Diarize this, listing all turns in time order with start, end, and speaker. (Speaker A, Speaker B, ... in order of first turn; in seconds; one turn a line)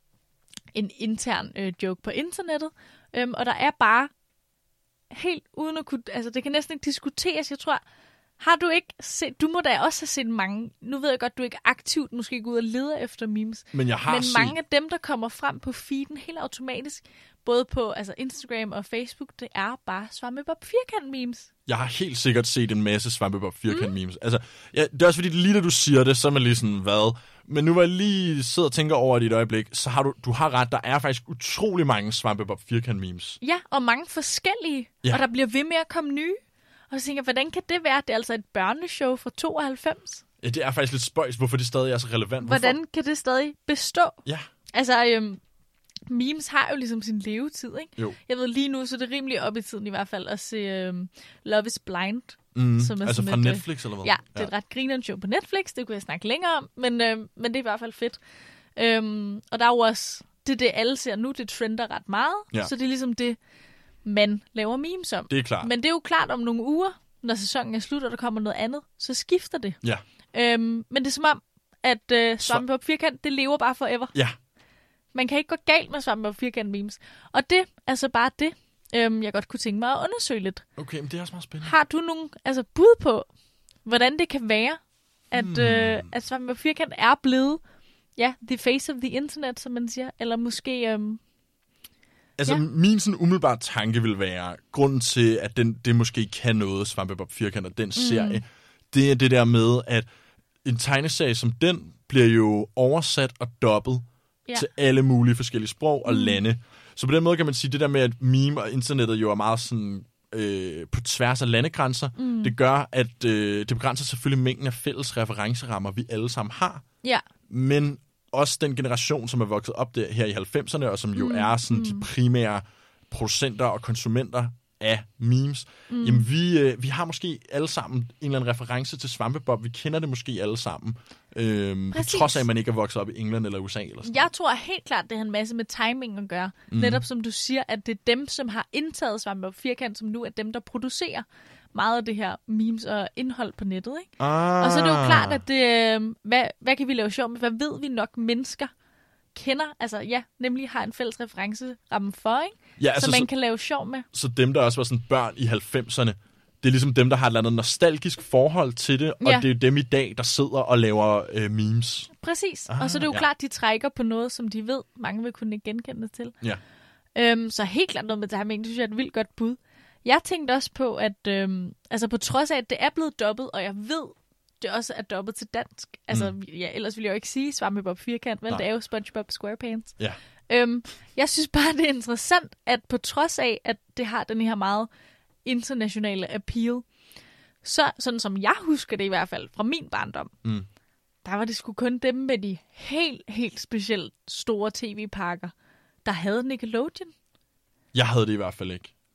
Speaker A: 0.8-4.1
Speaker A: 5.1-7.8
Speaker A: 8.4-21.5
Speaker B: 13.7-14.6
Speaker B: 21.7-33.4
Speaker A: 33.4-36.4
Speaker A: 36.9-40.2
Speaker B: 40.4-42.8
Speaker A: 42.4-44.2
Speaker A: 44.7-45.4
Speaker A: 46.1-58.2
Speaker B: 52.5-54.5
Speaker A: 58.8-63.4
Speaker A: 64.0-69.8
Speaker B: 65.3-65.7
Speaker A: 70.3-74.1
Speaker A: 75.1-80.6
Speaker B: 80.8-81.7
Speaker A: 81.6-83.3
Speaker A: 83.8-84.8
Speaker A: 85.3-87.6
Speaker B: 85.3-86.1
Speaker A: 88.2-91.2
Speaker B: 92.4-100.1
Speaker A: 98.0-98.4
Speaker B: 100.6-116.8
Speaker A: 106.1-106.4
Speaker A: 112.2-112.5
Speaker B: 117.5-134.3
Speaker A: 121.2-122.1
Speaker A: 125.9-126.3
Speaker A: 131.9-132.4
Speaker A: 134.0-148.7
Speaker B: 136.7-137.0
Speaker B: 144.2-145.4
Speaker A: 149.3-154.1
Speaker B: 152.8-153.3
Speaker B: 154.1-162.1
Speaker A: 159.2-159.5
Speaker A: 162.2-166.3
Speaker B: 162.7-163.3
Speaker A: 167.2-180.0
Speaker A: 180.5-184.9
Speaker A: 185.4-186.8
Speaker A: 187.6-190.3
Speaker A: 191.2-195.5
Speaker A: 196.1-197.1
Speaker B: 197.9-198.9